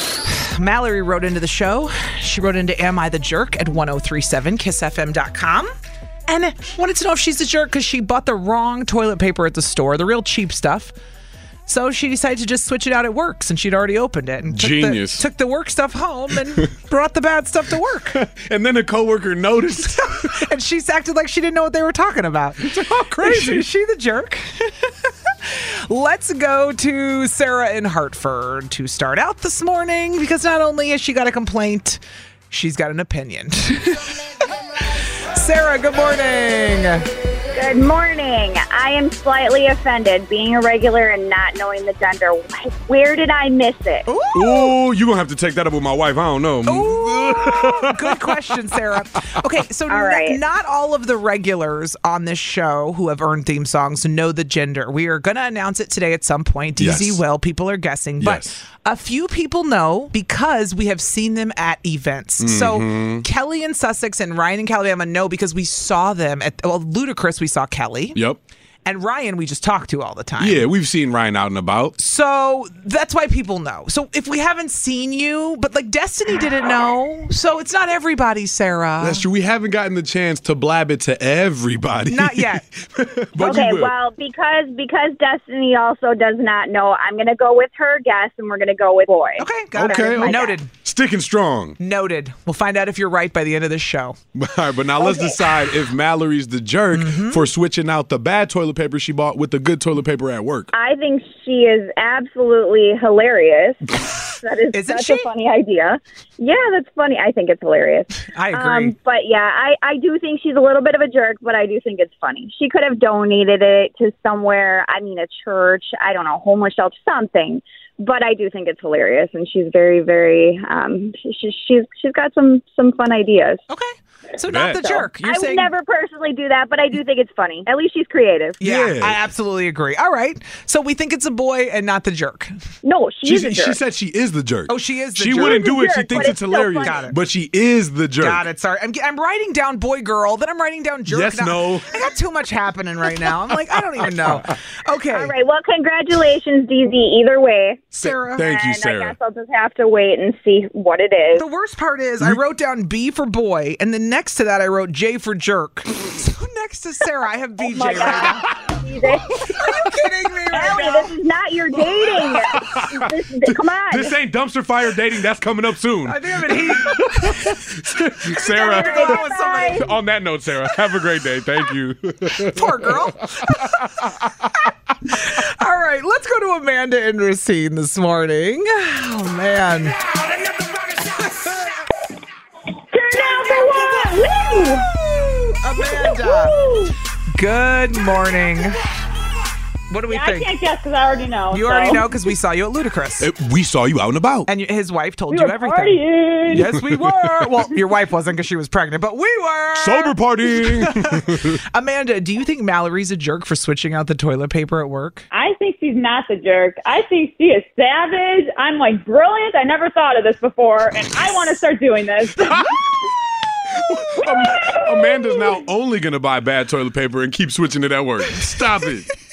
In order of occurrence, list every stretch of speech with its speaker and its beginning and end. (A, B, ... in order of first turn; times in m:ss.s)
0:00.3-0:05.7 A
0:06.3-0:10.9 A
0:11.7-0:18.2 A
0:14.5-0:15.2 B
0:18.1-0:20.3 B
0:19.9-0:22.7 A
0:22.6-0:23.6 B
0:23.2-0:34.2 A
0:34.8-0:37.0 A
0:37.5-0:44.2 C
0:44.0-0:44.8 A
0:44.3-0:48.3 B
0:46.6-1:08.2 A
0:49.9-0:50.4 C
0:56.8-0:57.2 B
0:58.2-0:58.6 B
1:02.4-1:03.2 B
1:08.8-1:10.6 A
1:10.4-1:11.9 B
1:12.0-1:19.2 A
1:19.0-1:23.9 B
1:22.0-1:22.6 A
1:23.4-1:30.6 C
1:29.4-1:30.7 A
1:29.7-1:31.8 B
1:31.8-1:34.2 A
1:34.3-1:40.7 B
1:35.0-1:35.4 C
1:36.9-1:37.4 A
1:40.7-2:03.6 C
1:44.7-1:45.3 A
1:48.2-1:48.9 A
2:03.7-2:05.7 A
2:04.4-2:05.1 B
2:05.2-2:08.6 C
2:08.6-2:09.2 B
2:08.6-2:12.5 A
2:12.8-2:13.8 C
2:13.2-2:18.4 B
2:14.7-2:17.2 A
2:15.3-2:17.1 C
2:18.2-2:25.3 A
2:21.1-2:22.0 B
2:24.0-2:24.4 B
2:25.1-2:31.5 C
2:27.9-2:28.5 A
2:28.0-2:29.2 B
2:31.3-2:38.5 A
2:37.6-2:39.7 C
2:37.9-2:38.8 B
2:39.5-2:41.2 A
2:40.5-2:44.1 C
2:41.9-2:54.4 B
2:46.0-2:47.6 A
2:48.3-2:49.9 A
2:48.5-2:49.9 C
2:52.4-2:53.8 A
2:55.1-3:00.0 A
3:01.1-3:01.6 A
3:03.0-3:04.8 D
3:03.1-3:06.6 A
3:05.8-3:06.9 D
3:07.3-3:08.8 A
3:09.9-3:10.5 A
3:10.1-3:12.1 D
3:11.5-3:13.3 A
3:13.2-3:14.5 B
3:14.5-3:25.2 A
3:15.3-3:16.6 D
3:16.5-3:17.6 B
3:19.8-3:21.6 B
3:25.3-3:32.7 D
3:33.8-3:39.1 B
3:34.2-3:35.6 D